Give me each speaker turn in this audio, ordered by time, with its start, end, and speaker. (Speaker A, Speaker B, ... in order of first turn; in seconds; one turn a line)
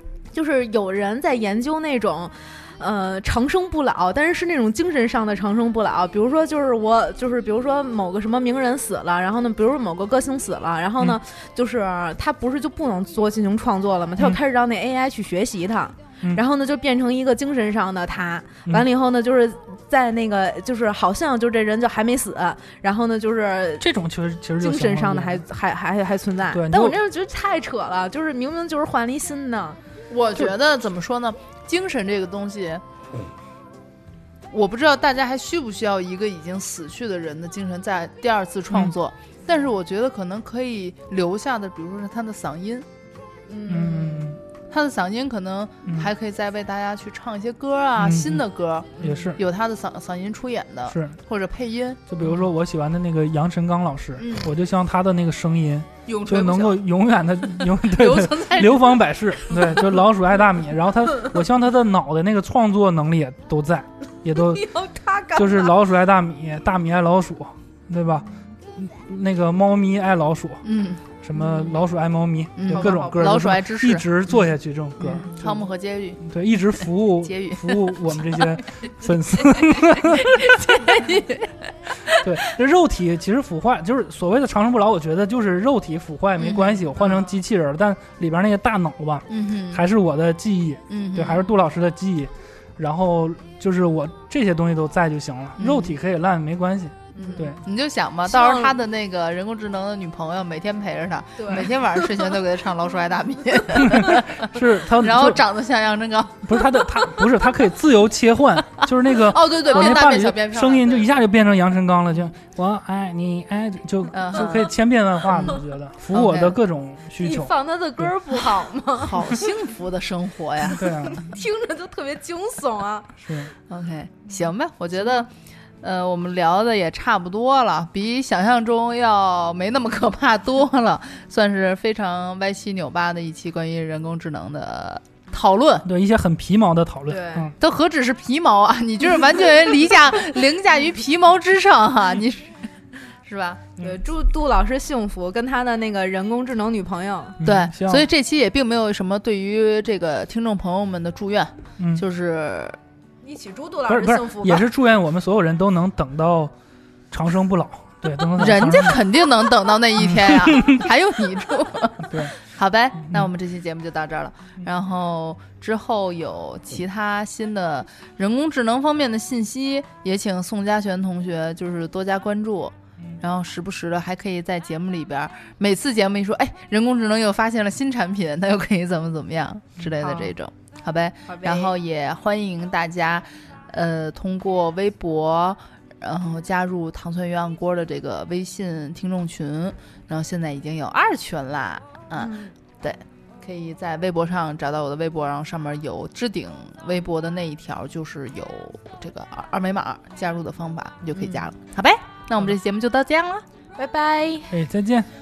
Speaker A: 0.3-23.9
Speaker B: 23.8-25.4
Speaker A: 24.6-29.8
Speaker B: 26.5-27.0
Speaker C: 30.1-32.8
Speaker C: 34.5-42.9
Speaker A: 43.5-44.3
Speaker B: 43.7-44.4
Speaker C: 44.7-52.1
Speaker B: 48.0-48.4
Speaker A: 49.0-49.4
Speaker B: 49.0-49.4
Speaker B: 50.9-51.1
Speaker B: 52.1-64.8
Speaker C: 54.2-54.5
Speaker C: 56.0-56.8
Speaker C: 57.6-59.0
Speaker A: 64.3-65.7
Speaker B: 65.3-75.3
Speaker C: 70.6-71.0
Speaker A: 71.3-71.7
Speaker C: 72.5-76.2
Speaker A: 72.7-73.4
Speaker A: 75.2-75.5
Speaker B: 76.2-80.4
Speaker C: 77.2-78.4
Speaker C: 79.5-81.5
Speaker B: 82.2-97.6
Speaker C: 86.4-87.2
Speaker C: 89.3-89.8
Speaker C: 90.9-91.5
Speaker C: 95.6-96.0
Speaker A: 97.2-97.5
Speaker C: 97.2-107.0
Speaker A: 98.3-98.8
Speaker A: 101.4-101.8
Speaker B: 103.7-105.4
Speaker B: 106.4-118.1
Speaker C: 108.7-111.1
Speaker A: 109.7-110.0
Speaker C: 114.1-114.7
Speaker C: 115.3-115.6
Speaker C: 116.1-116.6
Speaker A: 117.2-119.5
Speaker C: 119.0-120.9
Speaker B: 120.7-121.3
Speaker A: 120.8-123.1
Speaker B: 123.2-123.5
Speaker C: 123.7-125.3
Speaker C: 125.8-135.8
Speaker B: 135.8-137.5
Speaker A: 137.1-137.5
Speaker C: 137.6-142.5
Speaker C: 143.2-143.7
Speaker A: 143.8-147.4
Speaker B: 147.4-148.1
Speaker C: 147.4-152.8
Speaker A: 153.2-154.7
Speaker B: 153.9-156.5
Speaker B: 157.1-159.1
Speaker C: 158.4-203.4
Speaker B: 160.0-160.8
Speaker B: 162.1-162.3
Speaker B: 163.0-163.3
Speaker A: 180.0-180.3
Speaker A: 181.2-181.7
Speaker A: 192.2-192.5
Speaker A: 201.1-201.5
Speaker A: 203.8-204.6
Speaker B: 204.5-205.1